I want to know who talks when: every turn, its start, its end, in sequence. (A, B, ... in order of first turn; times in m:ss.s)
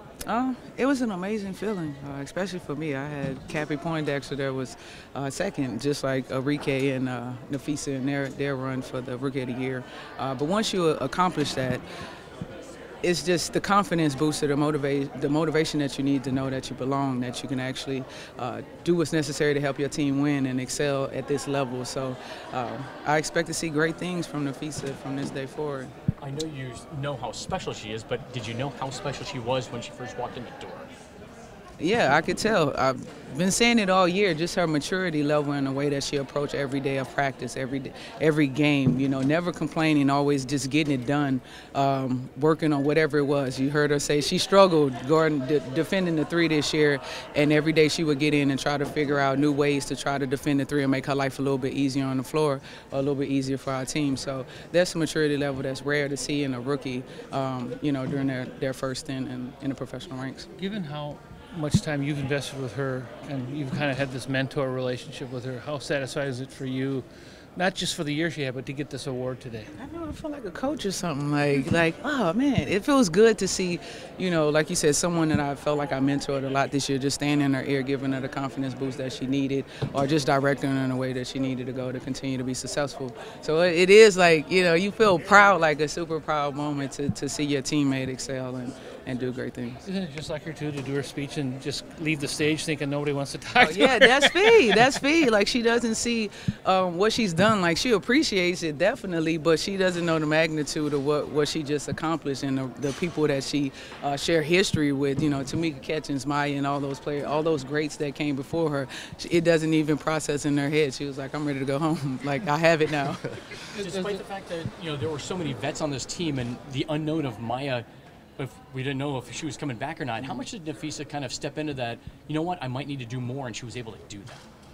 0:00.2-0:11.8 A
0:13.0-0:25.9 A
0:26.2-0:30.9 B
0:31.8-1:00.5 A
1:00.6-1:09.7 C
1:09.8-1:29.8 A
1:29.8-1:34.9 C
1:33.6-1:53.2 A
1:53.7-1:57.8 B
1:53.8-1:54.2 C
1:58.4-2:04.4 B